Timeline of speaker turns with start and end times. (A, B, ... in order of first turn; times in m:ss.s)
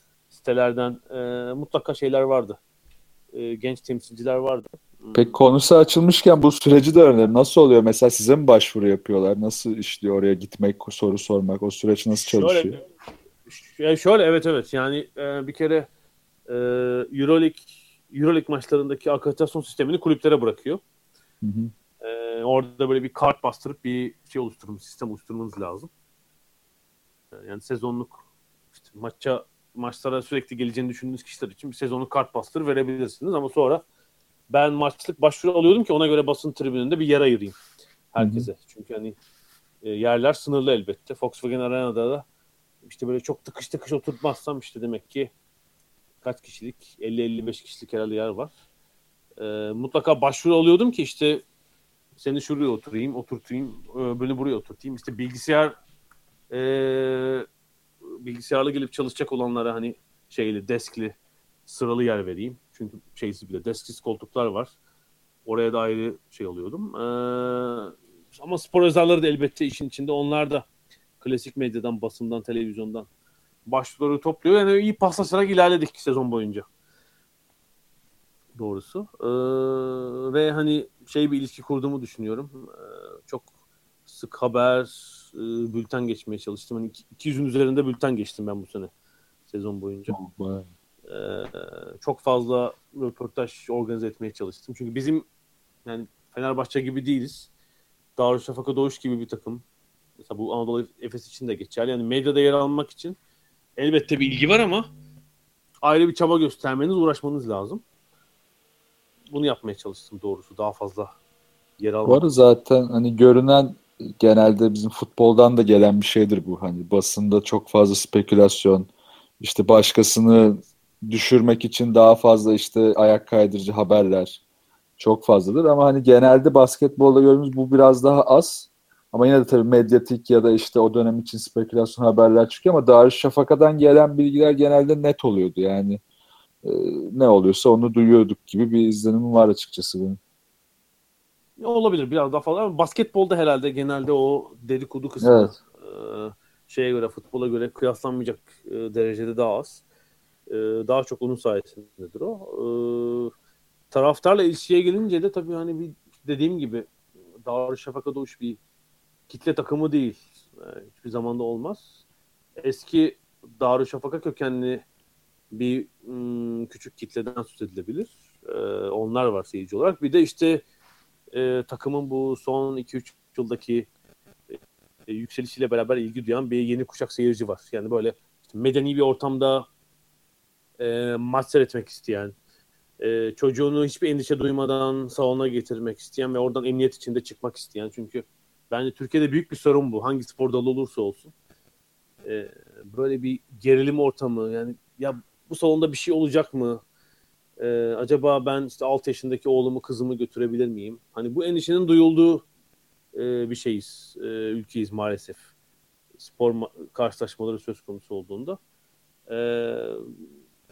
0:00.3-0:02.6 A
0:03.3-0:05.3 A
0:05.1-0:12.8 B
0:12.1-0:12.8 A
0:13.5-0:15.9 A
0:16.5-0:20.8 A
0:21.4-0:21.7 B
0:22.0-0:25.9 A
0:27.3-0:28.2 A
0:28.8-0:33.8 A
0:34.5-0:37.6 A
0:38.1-0:39.2 A
0:38.2-0:38.5 B
0:39.8-0:42.2 A
0:42.8-0:45.3 A
0:46.2-0:48.5 A
0:49.4-0:51.4 A
0:52.2-0:55.8 A
0:56.5-0:57.5 A
0:58.2-1:01.2 A
1:01.7-1:04.7 A
1:05.5-1:10.7 A
1:11.2-1:13.1 A
1:13.7-1:16.6 A
1:18.6-1:23.5 A
1:24.1-1:28.9 A
1:29.5-1:30.2 A
1:30.1-1:30.7 B
1:31.1-1:35.3 A
1:35.8-1:37.5 A
1:38.2-1:39.6 A
1:40.2-1:43.2 A
1:43.8-1:44.9 A
1:45.8-1:47.8 A
1:49.3-1:51.1 A
1:51.8-1:52.3 A
1:52.0-2:04.4 B
2:05.0-2:16.0 B
2:16.6-2:20.2 B
2:21.6-2:29.8 A
2:25.2-2:25.6 B
2:30.5-2:33.3 A
2:33.9-2:36.9 A
2:37.4-2:38.6 A
2:39.3-2:41.9 A
2:42.6-2:44.8 A
2:45.5-2:50.6 A
2:51.3-2:53.9 A
2:54.5-2:59.7 A
3:00.8-3:02.4 A
3:03.0-3:11.3 A
3:12.2-3:16.8 A
3:17.6-3:22.4 A
3:23.1-3:25.4 A
3:26.2-3:28.6 A
3:29.3-3:30.1 A